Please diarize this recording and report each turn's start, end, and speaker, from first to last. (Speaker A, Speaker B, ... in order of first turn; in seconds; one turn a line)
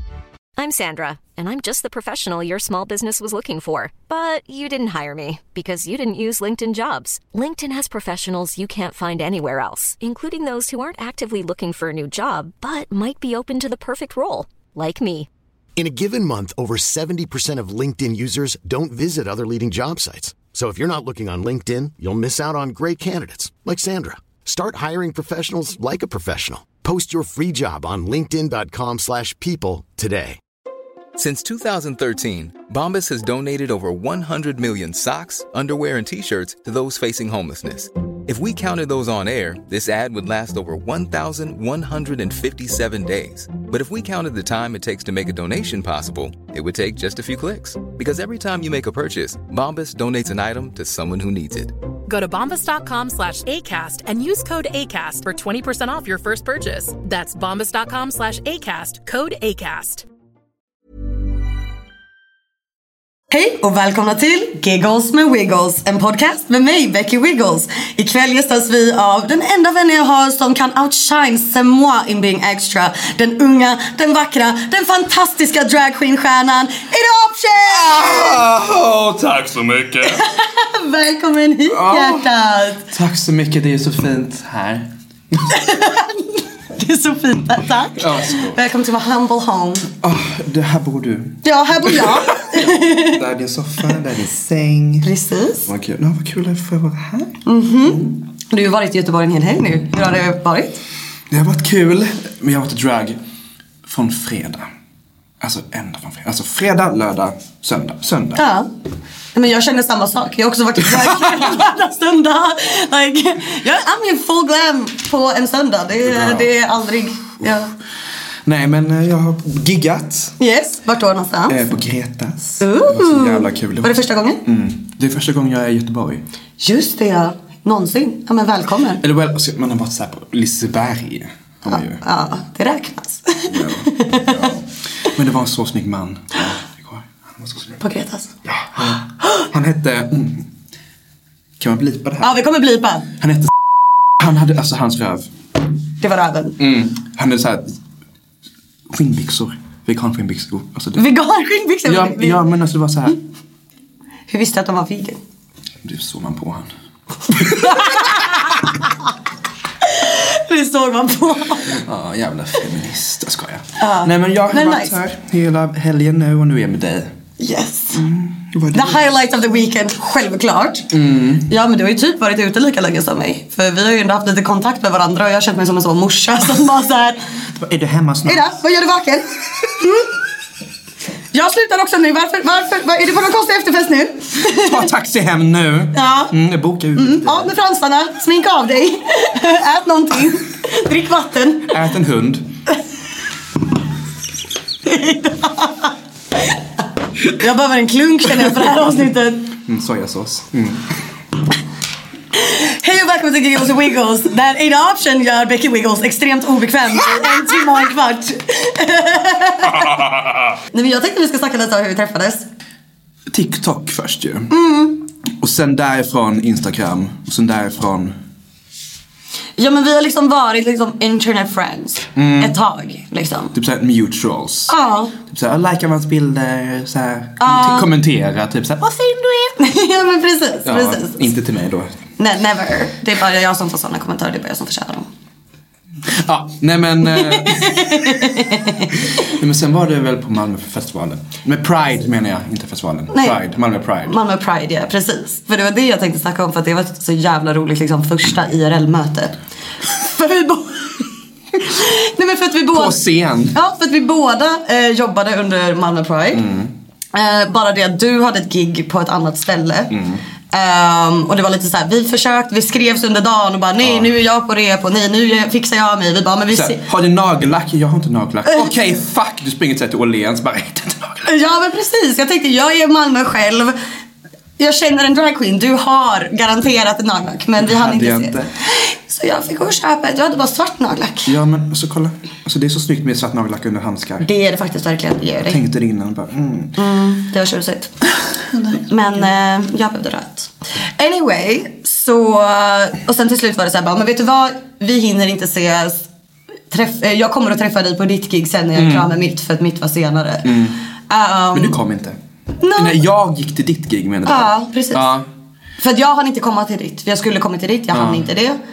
Speaker A: 0.6-15.3
Speaker B: 15.8-30.4
Speaker C: 31.1-51.8
Speaker D: 52.1-60.1
Speaker E: 63.3-78.4
Speaker F: 77.7-80.3
Speaker E: 80.1-82.9
Speaker F: 81.7-82.3
Speaker F: 82.9-85.5
Speaker E: 85.5-89.9
Speaker F: 88.0-88.6
Speaker F: 90.0-95.1
Speaker E: 91.4-93.2
Speaker E: 95.0-95.7
Speaker F: 95.7-98.2
Speaker E: 97.5-100.8
Speaker F: 101.3-103.2
Speaker F: 103.8-104.7
Speaker F: 105.4-108.4
Speaker E: 108.4-108.7
Speaker E: 109.3-117.7
Speaker F: 110.8-111.7
Speaker F: 116.0-116.5
Speaker F: 118.5-120.3
Speaker E: 120.4-121.7
Speaker F: 121.5-126.2
Speaker E: 122.6-124.4
Speaker E: 126.6-129.0
Speaker F: 129.0-132.0
Speaker E: 131.7-134.5
Speaker F: 133.5-137.8
Speaker E: 137.8-138.3
Speaker F: 138.4-140.5
Speaker F: 141.6-142.4
Speaker E: 142.2-143.1
Speaker F: 143.2-145.3
Speaker E: 146.0-146.6
Speaker F: 146.6-147.8
Speaker F: 148.9-151.0
Speaker E: 151.0-152.4
Speaker F: 151.9-153.2
Speaker E: 154.3-155.2
Speaker F: 155.8-156.7
Speaker F: 157.3-158.1
Speaker E: 157.5-158.6
Speaker E: 159.8-161.8
Speaker F: 161.7-167.2
Speaker E: 163.8-164.9
Speaker E: 167.4-168.0
Speaker F: 167.9-169.1
Speaker E: 168.7-170.9
Speaker F: 170.9-171.5
Speaker E: 171.4-177.2
Speaker F: 177.5-178.4
Speaker E: 178.3-180.1
Speaker E: 181.3-184.9
Speaker F: 184.4-187.5
Speaker E: 185.9-186.3
Speaker E: 187.0-191.8
Speaker F: 191.7-192.5
Speaker E: 194.8-195.9
Speaker E: 197.3-199.5
Speaker F: 199.7-201.0
Speaker E: 202.3-210.0
Speaker F: 207.1-207.7
Speaker F: 209.7-210.5
Speaker E: 210.7-212.5
Speaker F: 213.3-214.5
Speaker E: 214.5-215.0
Speaker F: 215.4-218.2
Speaker E: 219.6-223.5
Speaker F: 222.2-222.6
Speaker F: 223.5-229.6
Speaker E: 224.7-225.1
Speaker E: 227.4-227.9
Speaker E: 229.6-231.3
Speaker F: 230.7-231.9
Speaker E: 232.2-235.1
Speaker F: 236.1-244.2
Speaker E: 237.1-238.9
Speaker E: 243.1-243.4
Speaker E: 244.1-253.0
Speaker F: 252.7-253.6
Speaker E: 253.5-256.4
Speaker F: 256.3-256.7
Speaker E: 257.1-259.9
Speaker F: 259.9-260.2
Speaker E: 260.5-266.8
Speaker F: 263.8-264.1
Speaker F: 266.5-271.3
Speaker E: 271.2-273.8
Speaker E: 274.6-281.3
Speaker F: 277.6-278.5
Speaker F: 281.3-284.3
Speaker E: 284.2-285.6
Speaker F: 285.5-286.8
Speaker E: 286.8-296.1
Speaker E: 296.7-300.5
Speaker F: 298.8-299.1
Speaker F: 300.4-300.8
Speaker E: 301.1-301.8
Speaker F: 301.5-302.2
Speaker E: 302.6-303.0
Speaker F: 302.8-305.3
Speaker E: 304.3-305.2
Speaker E: 305.8-308.6
Speaker F: 307.9-308.3